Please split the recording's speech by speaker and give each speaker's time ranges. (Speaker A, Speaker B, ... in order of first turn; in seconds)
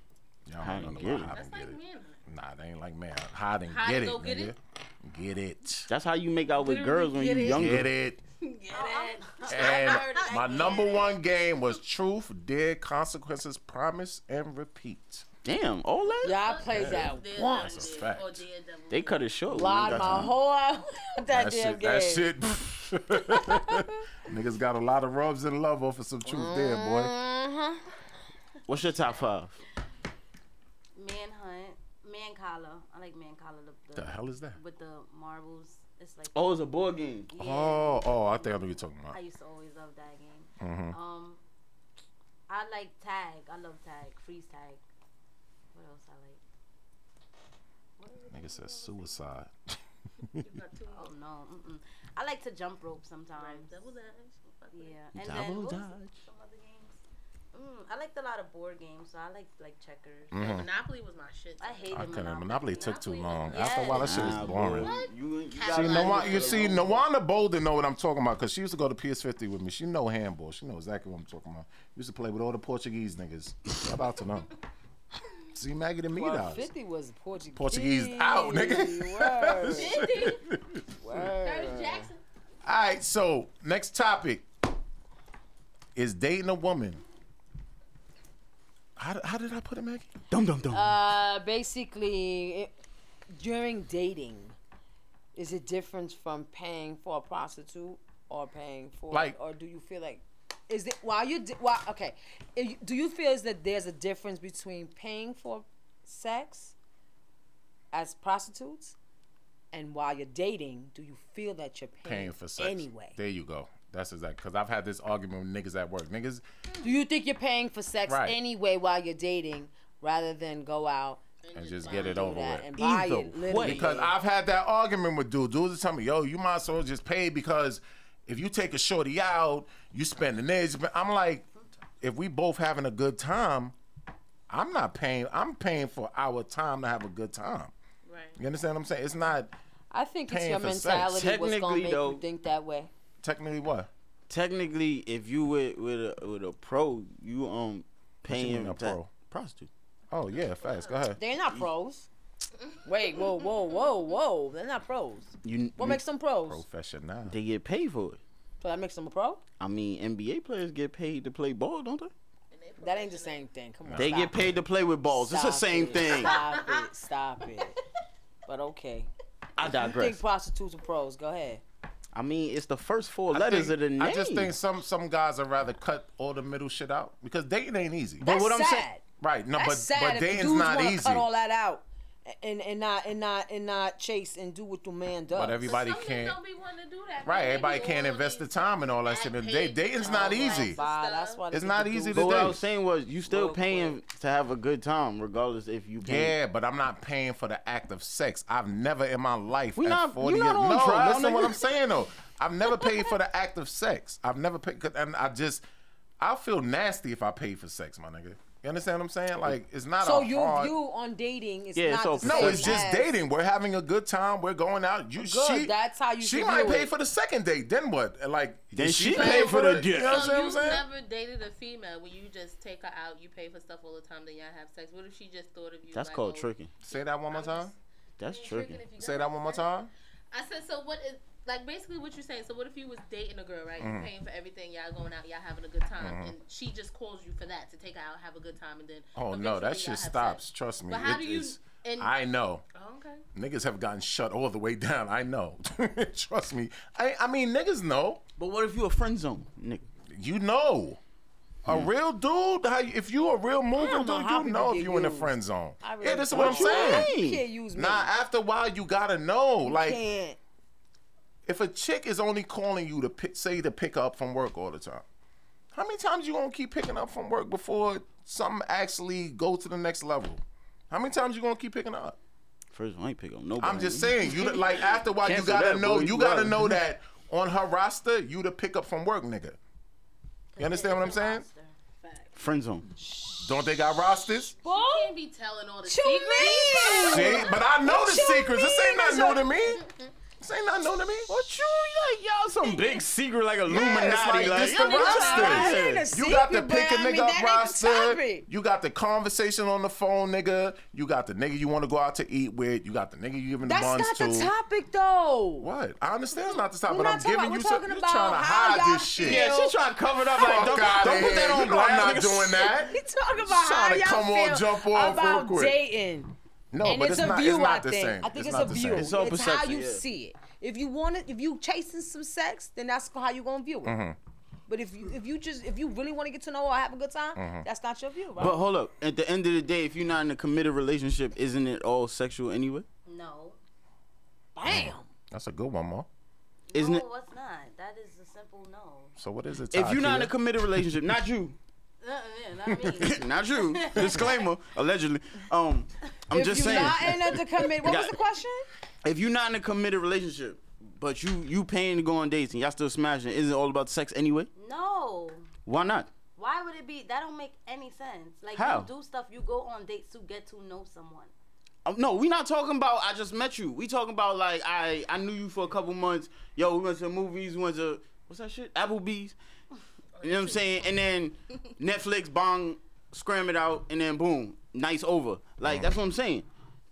Speaker A: 0.5-5.9, 7.5-8.2, 9.5-15.3, 16.7-18.4, 19.9-20.3, 21.3-27.1, 34.0-34.6, 37.4-39.2, 40.6-41.0, 48.3-49.8, 60.3-60.7, 61.9-64.9, 65.7-74.5, 75.5-76.7, 77.5-80.8, 82.6-84.5, 86.0-87.0, 89.0-90.1, 99.1-99.4, 112.0-116.4, 118.1-118.4, 121.5-122.7, 123.5-131.5, 132.0-133.7, 134.5-137.7, 138.4-139.5, 140.3-141.2, 143.2-143.9, 148.3-149.1, 150.1-151.2, 155.9-157.4, 163.9-164.2, 173.3-178.2, 179.2-181.3, 185.3-186.4, 187.2-190.8, 191.5-192.7, 196.0-205.6, 206.2-210.8, 212.2-220.8, 226.8-227.7, 229.0-229.9, 233.8-234.1, 236.0-236.3, 239.1-242.6, 243.3-248.2, 250.1-251.0, 251.6-257.1, 257.7-260.0, 261.4-265.1, 265.7-272.2, 273.6-279.6, 280.6-281.4, 283.4-284.6, 286.9-289.8, 290.4-291.4, 293.7-304.5, 305.6-309.5, 310.3-315.8, 316.7-319.1, 323.9-324.2, 327.4-327.7, 334.7-336.1, 339.2-340.3, 342.7-343.0, 375.6-375.9
Speaker B: 0.6-1.4, 5.9-7.9, 15.4-16.4, 18.9-20.3, 28.7-29.6, 36.3-37.3, 55.1-56.3, 64.0-67.0, 90.3-91.0, 122.8-124.1, 141.0-142.2, 144.3-149.7, 155.4-156.0, 157.3-158.2, 159.6-162.1, 163.9-166.4, 169.6-170.2, 172.1-174.5, 178.2-178.9, 192.1-196.3, 199.8-201.6, 211.7-212.8, 218.7-220.3, 225.9-226.7, 228.2-228.9, 248.4-249.9, 256.3-257.4, 272.7-274.6, 275.2-276.8, 282.4-282.9, 291.3-296.1, 309.2-312.7, 318.9-320.0, 328.4-332.9, 336.7-337.1, 339.7-341.6, 342.9-348.2, 349.0-354.5, 355.6-356.1, 358.5-358.9, 361.9-369.4, 370.2-376.5
Speaker C: 1.3-2.2, 3.7-4.5, 6.5-7.9, 8.4-11.0, 16.1-19.3, 50.4-51.1, 53.3-55.0, 60.4-64.0, 64.6-66.9, 79.7-80.4, 81.4-82.2, 121.4-122.3, 138.1-138.4, 150.5-151.0, 162.5-163.4, 165.9-166.9, 185.6-191.4, 219.1-229.8, 230.3-242.1, 242.7-243.2, 282.0-282.3, 284.7-287.6, 370.2-370.9
Speaker D: 8.7-11.1, 30.9-36.6, 37.3-41.4, 42.5-44.8, 45.7-46.4, 48.0-49.2, 50.9-53.9, 54.7-57.0, 57.5-60.5, 61.6-64.5, 280.5-281.7, 333.1-333.6, 336.7-339.1, 342.0-344.4, 354.6-355.5, 356.4-361.3
Speaker E: 16.2-17.9, 19.5-22.3, 26.3-27.8, 76.1-80.0, 81.0-82.1, 90.7-92.7, 93.3-94.5, 95.3-106.7, 107.9-109.0, 109.7-113.2, 116.8-121.2, 121.9-124.1, 139.9-142.9, 151.2-152.1, 152.8-156.6, 158.6-159.4, 162.8-164.5, 165.1-167.8, 168.4-169.1, 169.6-171.6, 178.2-179.0, 179.6-185.7, 190.0-192.4, 193.3-193.9, 210.0-213.1, 215.2-216.9, 253.8-258.1, 259.6-260.4, 283.0-283.5, 284.6-285.1, 285.9-289.4, 293.8-298.4, 303.6-305.7, 306.9-309.8, 312.9-324.0, 324.7-328.6, 334.6-335.1, 346.3-348.7